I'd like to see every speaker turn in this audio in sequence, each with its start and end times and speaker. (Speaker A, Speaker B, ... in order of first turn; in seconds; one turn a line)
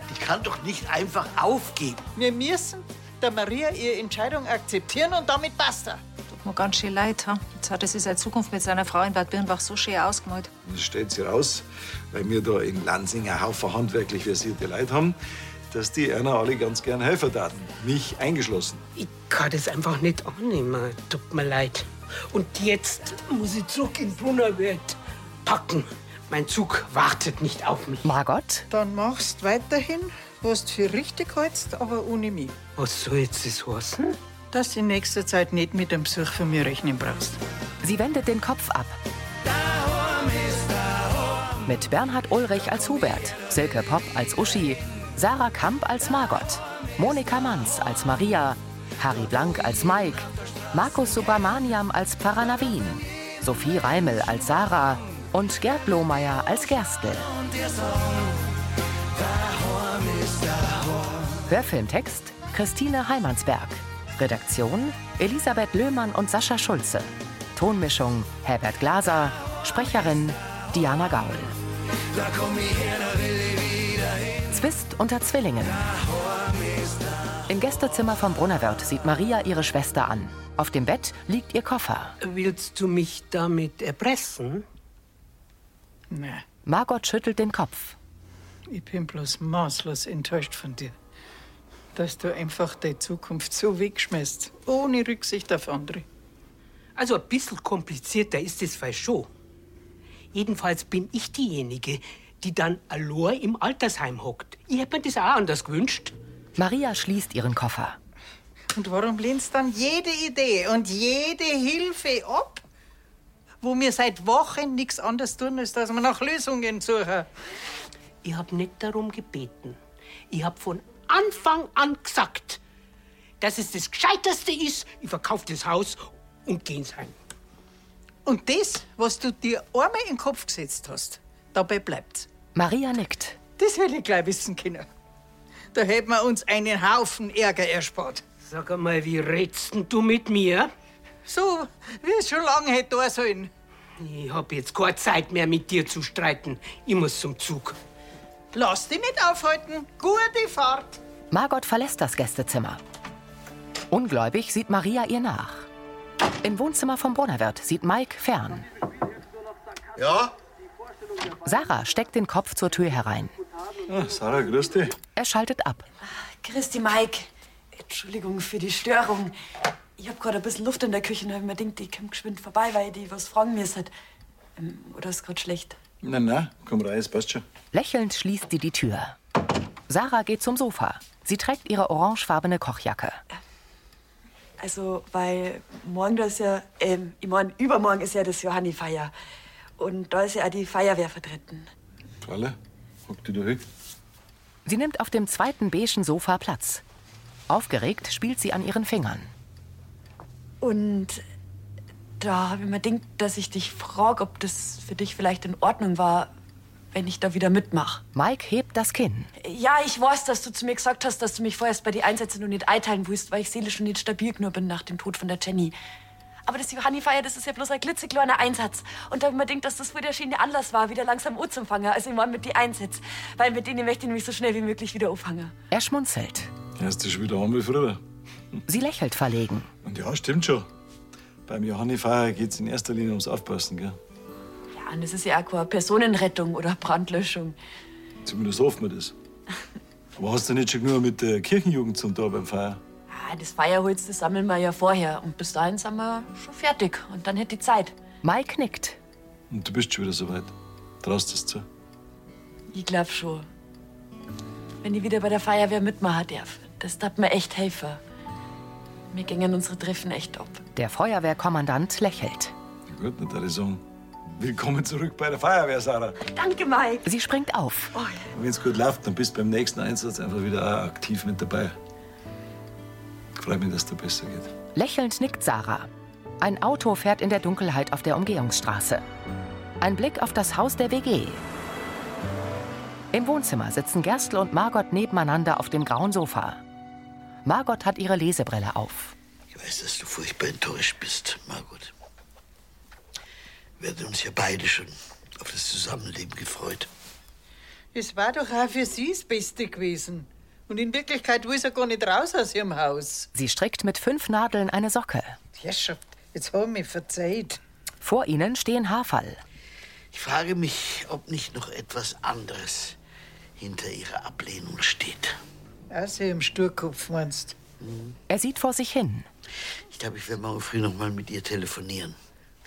Speaker A: 0.1-2.1
Speaker B: 2.2-6.0
Speaker C: 6.3-10.5
Speaker D: 10.7-15.2
Speaker D: 15.7-18.8
Speaker E: 19.0-28.1
Speaker F: 28.0-28.6
Speaker B: 28.7-32.6
Speaker E: 32.8-34.2
Speaker B: 34.5-37.4
Speaker F: 37.8-39.0
Speaker F: 41.6-57.3
Speaker F: 61.5-71.5
Speaker F: 74.5-76.0
Speaker F: 77.5-82.1
Speaker E: 82.2-84.7
Speaker B: 86.1-86.4
Speaker F: 86.7-88.0
Speaker B: 88.7-91.0
Speaker B: 92.0-96.0
Speaker E: 97.0-99.3
Speaker E: 100.3-106.2
Speaker F: 106.6-108.0
Speaker B: 108.8-112.6
Speaker B: 113.6-117.3
Speaker E: 118.2-119.8
Speaker E: 120.3-122.6
Speaker E: 123.4-127.2
Speaker B: 128.3-132.3
Speaker F: 132.6-133.4
Speaker B: 133.6-134.9
Speaker B: 135.7-138.2
Speaker E: 138.4-140.7
Speaker B: 141.3-143.5
Speaker E: 144.0-147.8
Speaker B: 148.5-151.0
Speaker F: 151.3-152.8
Speaker F: 153.9-155.7
Speaker F: 156.4-158.6
Speaker A: 160.0-160.3
Speaker F: 161.4-163.3
Speaker D: 163.9-165.0
Speaker F: 165.1-165.9
Speaker G: 166.1-169.3
Speaker G: 170.0-173.9
Speaker G: 174.6-175.8
Speaker D: 176.0-177.4
Speaker F: 177.7-179.2
Speaker F: 179.9-183.2
Speaker G: 184.6-189.1
Speaker G: 189.8-191.7
Speaker D: 192.2-193.6
Speaker F: 194.7-196.8
Speaker F: 197.5-199.3
Speaker G: 200.6-201.2
Speaker G: 202.2-206.3
Speaker G: 206.9-208.0
Speaker F: 208.1-209.3
Speaker G: 209.4-215.8
Speaker G: 216.5-225.6
Speaker F: 225.7-226.5
Speaker D: 226.8-228.0
Speaker F: 228.7-229.7
Speaker D: 229.8-230.7
Speaker D: 231.5-234.0
Speaker G: 234.7-237.6
Speaker D: 238.2-239.1
Speaker D: 240.2-242.8
Speaker G: 243.1-247.9
Speaker F: 248.2-249.0
Speaker D: 249.5-251.7
Speaker G: 252.7-253.5
Speaker G: 254.8-258.0
Speaker G: 259.1-260.6
Speaker F: 260.8-262.5
Speaker D: 262.9-263.8
Speaker D: 264.4-266.2
Speaker G: 266.2-267.1
Speaker F: 267.1-267.9
Speaker G: 267.9-268.2
Speaker D: 268.3-271.8
Speaker D: 273.4-274.5
Speaker F: 274.7-275.9
Speaker F: 276.4-279.1
Speaker F: 279.8-281.4
Speaker F: 283.1-286.6
Speaker F: 287.4-289.1
Speaker A: 289.5-291.9
Speaker A: 293.8-296.9
Speaker B: 297.9-303.3
Speaker F: 303.4-305.4
Speaker B: 305.6-307.6
Speaker F: 308.0-309.4
Speaker A: 310.1-313.0
Speaker A: 313.6-315.4
Speaker B: 315.9-317.6
Speaker A: 317.8-318.2
Speaker F: 318.3-319.3
Speaker A: 319.9-322.2